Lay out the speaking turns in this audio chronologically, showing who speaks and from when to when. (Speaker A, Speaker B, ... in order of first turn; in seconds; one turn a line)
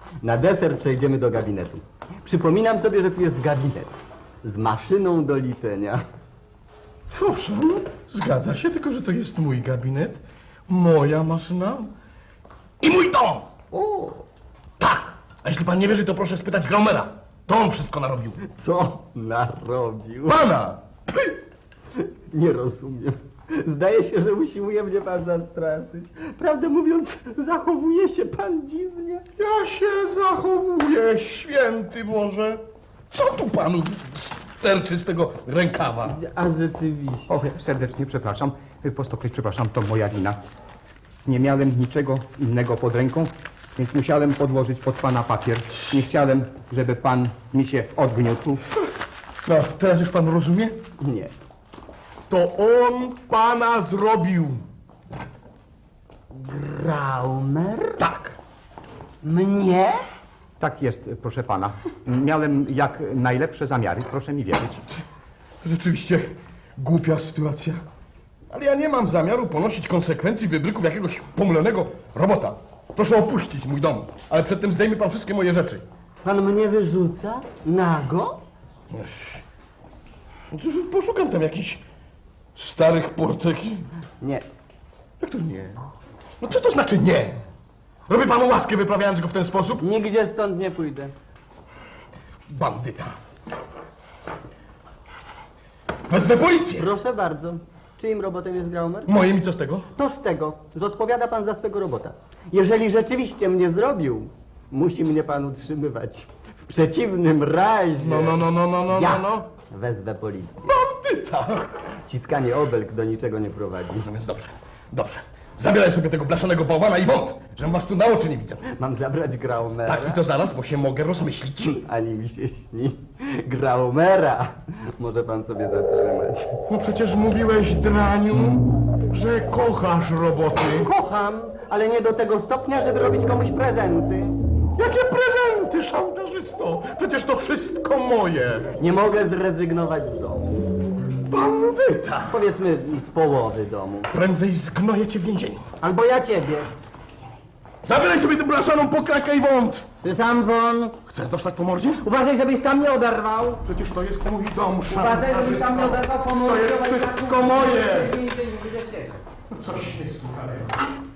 Speaker A: 0.2-6.0
Speaker B: 7.1-11.9
Speaker B: 12.8-13.5
Speaker A: 13.7-14.2
Speaker B: 14.8-18.4
Speaker A: 18.4-20.6
Speaker B: 20.3-21.4
Speaker A: 22.0-29.2
Speaker B: 29.4-36.2
Speaker A: 36.1-37.4
Speaker C: 37.3-40.4
Speaker C: 41.2-48.7
Speaker B: 49.4-50.8
Speaker A: 51.0-51.3
Speaker B: 52.3-54.6
Speaker A: 56.3-58.0
Speaker B: 58.0-58.4
Speaker A: 59.2-60.0
Speaker C: 60.6-64.8
Speaker B: 65.6-67.8
Speaker B: 68.5-75.8
Speaker A: 76.2-78.4
Speaker B: 78.9-79.4
Speaker B: 80.5-81.8
Speaker B: 82.5-83.9
Speaker A: 84.2-84.5
Speaker B: 85.2-85.9
Speaker B: 86.4-87.4
Speaker B: 88.1-89.8
Speaker A: 89.8-91.1
Speaker B: 92.5-93.2
Speaker B: 96.1-96.9
Speaker A: 96.8-99.1
Speaker B: 99.1-99.9
Speaker A: 100.0-110.7
Speaker B: 108.0-109.5
Speaker B: 110.6-111.7
Speaker A: 112.1-114.1
Speaker B: 114.0-118.6
Speaker A: 118.6-120.2
Speaker B: 119.8-121.8
Speaker A: 121.8-126.6
Speaker B: 126.7-130.9
Speaker A: 130.8-134.3
Speaker B: 134.8-138.7
Speaker A: 138.8-140.6
Speaker B: 141.3-142.4
Speaker A: 142.3-144.1
Speaker B: 144.1-145.7
Speaker A: 145.8-146.7
Speaker B: 147.8-149.9
Speaker A: 150.0-150.9
Speaker B: 151.1-152.1
Speaker A: 152.0-153.6
Speaker B: 153.6-158.2
Speaker A: 154.9-159.2
Speaker B: 159.5-160.7